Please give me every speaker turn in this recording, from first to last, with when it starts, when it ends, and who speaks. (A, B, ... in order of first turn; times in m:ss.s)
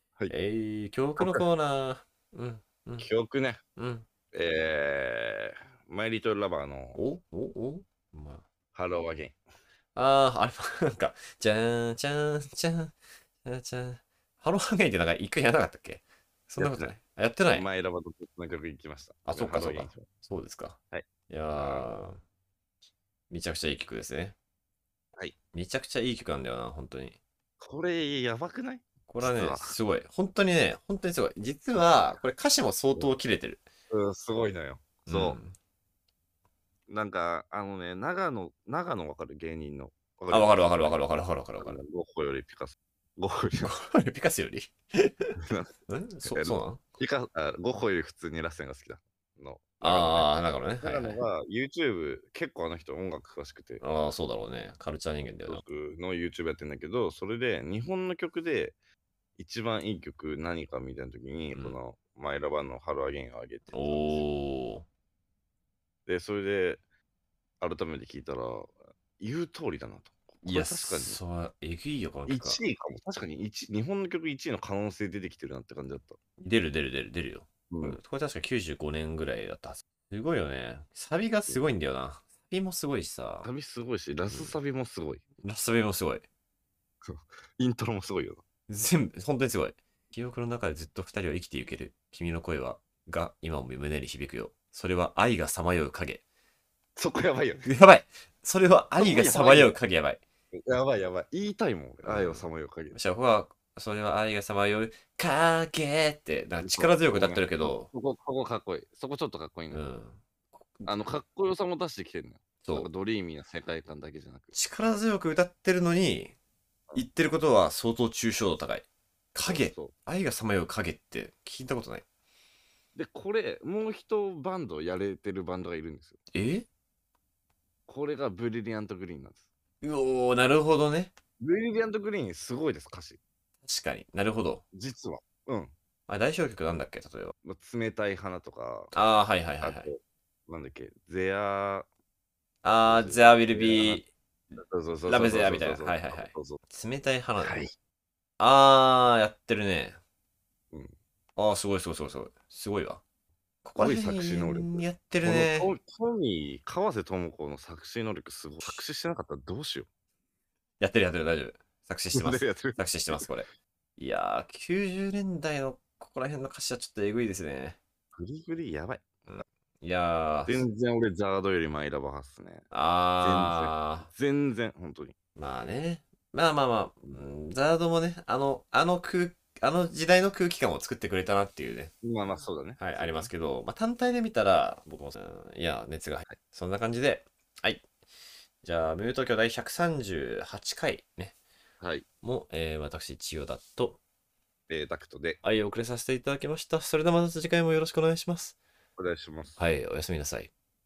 0:00.3-0:03.1 A
0:03.0-0:03.6 B
0:03.8-0:04.0 A
0:04.3-0:07.0 B
0:07.0-0:08.4 A
0:08.7-0:09.4 B
0:09.9-0:17.6 A
0:16.6-0:16.9 B
0:17.5-0:20.1 B
0:19.2-0:22.2 A
0:20.9-0:21.9 B
0:23.3-0:24.4 A
0:25.5-0:27.2 A
0:27.6-0:29.8 B
0:29.1-0:33.6 A
0:33.9-0:35.4 B
0:35.1-0:35.5 A
0:36.9-0:41.0 B
0:40.3-0:41.8 A
0:41.6-0:43.7 B
0:43.6-0:45.3 A
0:45.4-0:53.8 B
0:45.9-0:46.8 A
0:49.8-0:51.2 A
0:53.8-0:55.6 A
0:55.5-0:58.8 B
0:59.4-1:04.2 B
1:01.5-1:01.8 A
1:03.7-1:04.8 A
1:06.1-1:06.8 B
1:07.6-1:11.2 B
1:10.4-1:12.6 A
1:12.3-1:16.2 B
1:16.4-1:23.4 A
1:17.7-1:18.0 B
1:23.4-1:25.2 B
1:25.4-1:26.2 A
1:27.1-1:28.4 B
1:28.7-1:36.2 A
1:37.0-1:37.7 B
1:37.6-1:40.2 A
1:39.0-1:39.7 B
1:40.5-1:43.0 B
1:42.0-1:47.9 A
1:46.6-1:49.8 B
1:49.7-1:51.2 A
1:50.9-1:54.5 B
1:54.5-1:56.3 A
1:57.0-2:02.0 A
1:59.4-1:59.9 B
2:03.0-2:06.2 B
2:06.3-2:06.7 A
2:07.9-2:09.5 B
2:09.8-2:11.1 A
2:11.4-2:13.2 B
2:13.6-2:14.6 A
2:14.7-2:15.7 B
2:16.1-2:17.3 A
2:17.4-2:18.9 B
2:18.9-2:19.9 A
2:19.6-2:21.9 B
2:22.6-2:24.1 A
2:22.8-2:24.0 B
2:24.5-2:26.6 B
2:25.1-2:27.6 A
2:27.4-2:27.7 B
2:28.4-2:30.0 A
2:31.4-2:33.0 A
2:33.6-2:35.7 A
2:33.8-2:39.9 B
2:40.8-2:47.8 A
2:42.1-2:43.2 B
2:48.1-2:49.3 B
2:49.3-2:50.6 A
2:50.4-2:52.7 B
2:52.7-2:54.1 A
2:53.2-2:55.1 B
2:55.4-3:01.9 A
3:02.0-3:03.3 B
3:02.8-3:07.8 A
3:08.6-3:11.4 A
3:11.8-3:12.0 B
3:12.2-3:14.0 A
3:14.7-3:15.4 B
3:15.4-3:18.6 A
3:19.0-3:19.6 B
3:19.6-3:20.5 A